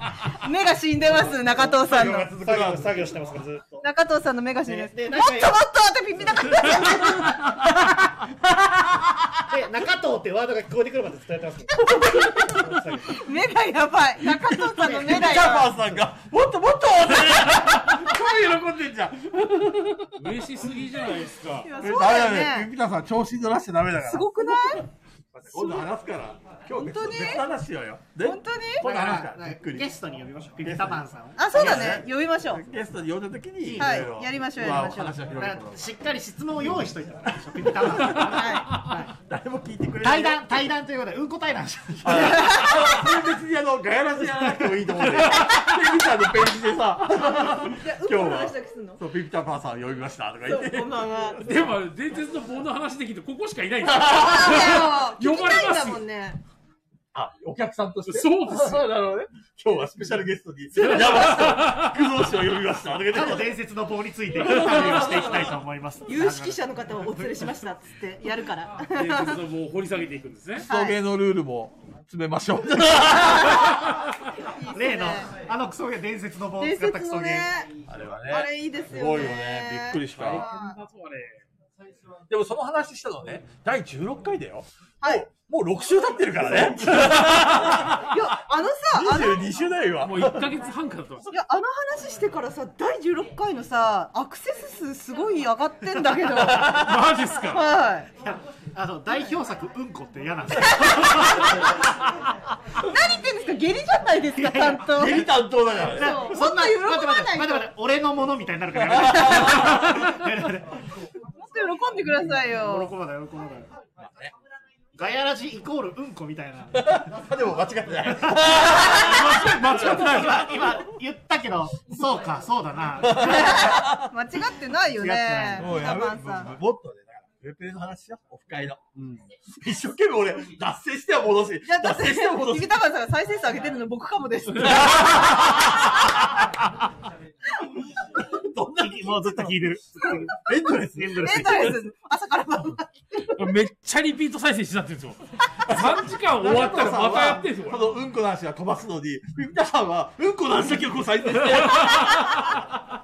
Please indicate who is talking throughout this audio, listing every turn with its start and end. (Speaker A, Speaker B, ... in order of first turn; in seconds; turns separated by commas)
Speaker A: 0.3-2.3, Speaker B: 1.4-3.9, Speaker C: 1.8-3.1, Speaker A: 3.8-7.5, Speaker B: 4.6-5.6, Speaker B: 9.4-13.2, Speaker A: 11.9-15.8, Speaker C: 14.5-20.3, Speaker B: 14.8-15.4, Speaker D: 20.1-21.7, Speaker A: 21.6-22.7, Speaker C: 21.8-29.9, Speaker A: 24.1-24.9, Speaker A: 26.7-27.5, Speaker A: 28.2-28.9, Speaker B: 28.8-32.0, Speaker C: 30.6-35.9, Speaker A: 31.4-32.7, Speaker B: 33.6-34.2, Speaker A: 33.8-35.2, Speaker B: 35.4-39.1, Speaker C: 37.5-38.5, Speaker A: 38.2-38.8, Speaker C: 39.1-40.6, Speaker B: 40.0-42.5, Speaker C: 42.0-51.4, Speaker A: 42.0-43.1, Speaker A: 47.6-49.0, Speaker A: 50.5-51.4, Speaker D: 51.4-56.0, Speaker A: 54.0-56.4, Speaker C: 54.2-54.5, Speaker C: 57.1-63.6, Speaker D: 58.1-58.9, Speaker B: 63.1-66.6, Speaker C: 64.7-65.2, Speaker A: 66.1-69.4, Speaker D: 68.9-70.7, Speaker C: 70.7-73.8, Speaker A: 70.7-71.0, Speaker A: 73.4-73.7, Speaker A: 74.5-75.3, Speaker B: 74.7-77.5, Speaker A: 76.6-77.7, Speaker C: 77.9-80.5, Speaker A: 78.3-80.8, Speaker D: 80.1-81.4, Speaker C: 82.3-88.2, Speaker A: 88.1-89.5, Speaker C: 88.9-90.5, Speaker D: 90.0-91.3, Speaker A: 91.3-98.1, Speaker D: 96.4-97.7, Speaker B: 98.2-101.6, Speaker A: 100.7-101.7, Speaker A: 102.8-105.3, Speaker B: 104.4-105.2, Speaker C: 104.9-106.3, Speaker B: 105.8-110.8, Speaker A: 105.9-107.7, Speaker C: 108.9-110.0, Speaker A: 111.4-112.9, Speaker B: 112.4-113.7, Speaker C: 114.0-114.3, Speaker B: 115.0-117.1, Speaker C: 116.8-120.0, Speaker D: 118.7-120.7, Speaker B: 119.1-123.7, Speaker C: 123.0-124.1, Speaker A: 123.2-126.5, Speaker B: 125.0-125.8, Speaker C: 125.6-128.8, Speaker B: 128.9-129.3, Speaker C: 129.5-132.8, Speaker A: 131.7-135.4, Speaker C: 134.6-136.4, Speaker C: 138.1-141.8, Speaker B: 138.8-141.7, Speaker A: 141.2-143.4, Speaker D: 143.3-147.9, Speaker C: 145.7-152.7